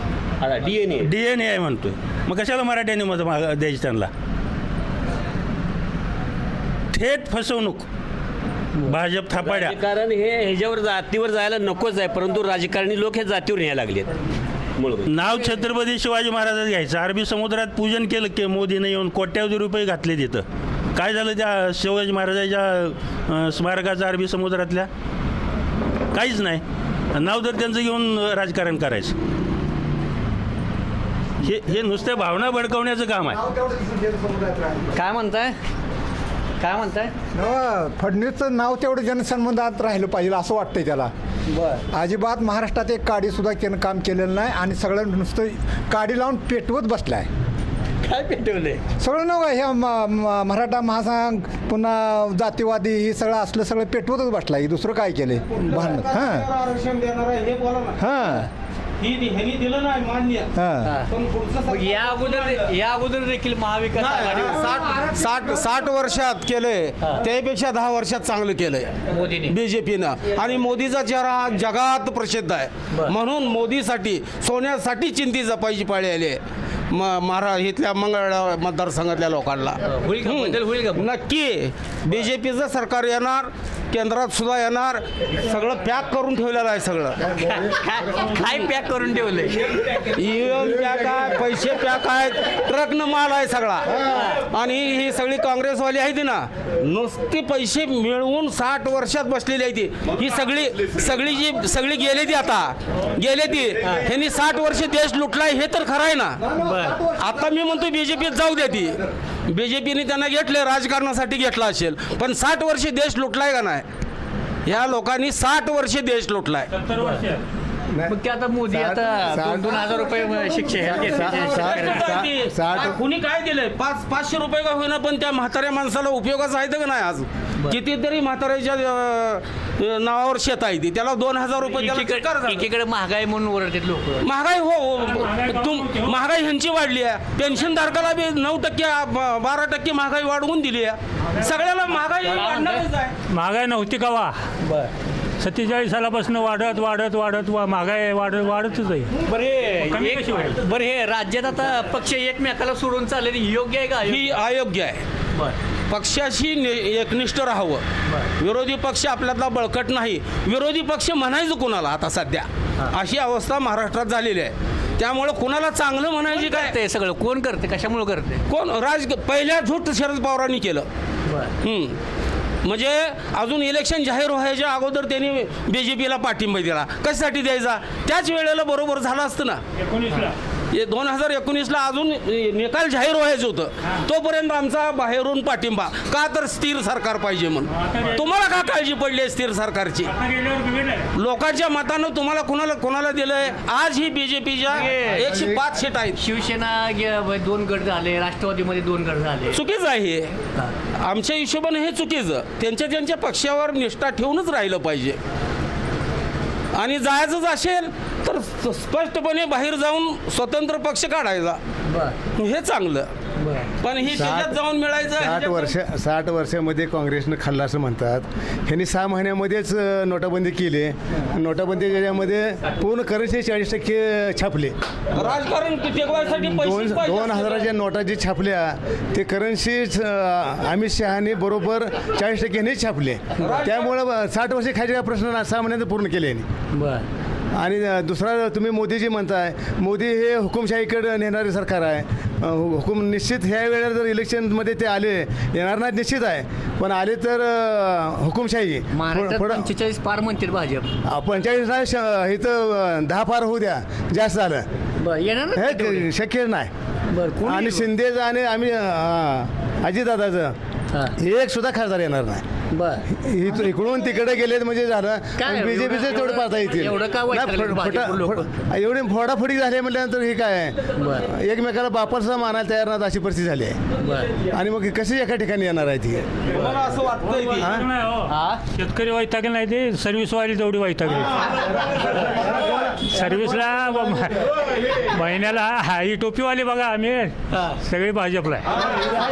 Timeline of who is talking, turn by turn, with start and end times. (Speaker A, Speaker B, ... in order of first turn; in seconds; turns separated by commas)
Speaker A: 0.4-1.1, Speaker B: 1.0-4.1, Speaker B: 6.9-7.9, Speaker B: 8.8-9.8, Speaker A: 9.4-14.1, Speaker A: 14.8-15.0, Speaker B: 15.0-24.9, Speaker B: 26.1-26.6, Speaker B: 27.1-29.1, Speaker B: 31.4-33.4, Speaker C: 33.3-34.8, Speaker D: 34.9-35.5, Speaker D: 36.6-37.1, Speaker C: 37.4-41.1, Speaker D: 41.5-41.8, Speaker C: 41.9-47.3, Speaker D: 48.0-48.8, Speaker C: 49.0-56.5, Speaker E: 55.5-58.0, Speaker C: 58.0-58.5, Speaker E: 59.0-60.5, Speaker C: 60.6-61.0, Speaker D: 60.8-61.1, Speaker E: 61.1-62.3, Speaker D: 61.6-64.8, Speaker E: 64.0-68.9, Speaker D: 69.1-69.6, Speaker E: 69.5-76.4, Speaker D: 72.9-73.2, Speaker E: 76.9-87.1, Speaker D: 79.8-81.1, Speaker D: 87.4-89.7, Speaker E: 90.1-106.3, Speaker D: 94.1-94.4, Speaker D: 103.8-104.1, Speaker D: 106.5-107.1, Speaker E: 107.2-108.9, Speaker E: 109.5-113.8, Speaker E: 114.7-116.7, Speaker D: 116.9-117.3, Speaker D: 118.0-122.2, Speaker F: 118.7-119.7, Speaker F: 121.1-122.9, Speaker E: 121.7-132.6, Speaker D: 131.7-134.3, Speaker E: 134.2-140.9, Speaker G: 135.2-136.1, Speaker E: 141.5-143.1, Speaker D: 142.2-142.9, Speaker G: 143.3-144.4, Speaker D: 144.6-144.9, Speaker G: 145.4-149.1, Speaker D: 149.2-154.4, Speaker G: 149.8-150.6, Speaker E: 154.1-155.0, Speaker E: 155.9-157.8, Speaker E: 158.4-166.7, Speaker D: 166.3-168.4, Speaker E: 168.5-170.8, Speaker D: 171.2-171.5, Speaker E: 171.6-171.9, Speaker E: 172.7-179.6, Speaker E: 180.7-187.7, Speaker G: 187.7-188.2, Speaker E: 188.2-190.1, Speaker G: 190.1-191.0, Speaker E: 191.2-196.2, Speaker D: 194.7-195.5, Speaker D: 196.1-199.6, Speaker E: 199.5-200.3, Speaker E: 201.1-205.2, Speaker E: 206.8-211.6, Speaker D: 211.9-212.2, Speaker E: 212.4-213.1, Speaker D: 213.4-213.7, Speaker E: 213.8-215.7, Speaker F: 214.1-214.6, Speaker F: 215.2-224.7, Speaker E: 225.2-227.6, Speaker F: 226.4-236.5, Speaker E: 233.5-233.9, Speaker D: 236.7-237.0, Speaker F: 237.5-249.7, Speaker D: 248.9-250.9, Speaker F: 251.1-254.7, Speaker D: 255.0-256.1, Speaker F: 255.6-256.7, Speaker D: 257.1-257.9, Speaker F: 257.4-260.6, Speaker F: 261.2-262.4, Speaker D: 262.7-263.0, Speaker F: 263.1-273.8, Speaker D: 265.4-268.5, Speaker D: 270.9-271.3, Speaker D: 274.0-274.3, Speaker F: 274.5-276.2, Speaker E: 276.8-277.6, Speaker G: 277.4-288.8, Speaker F: 277.6-277.9, Speaker D: 278.3-278.6, Speaker D: 287.5-287.8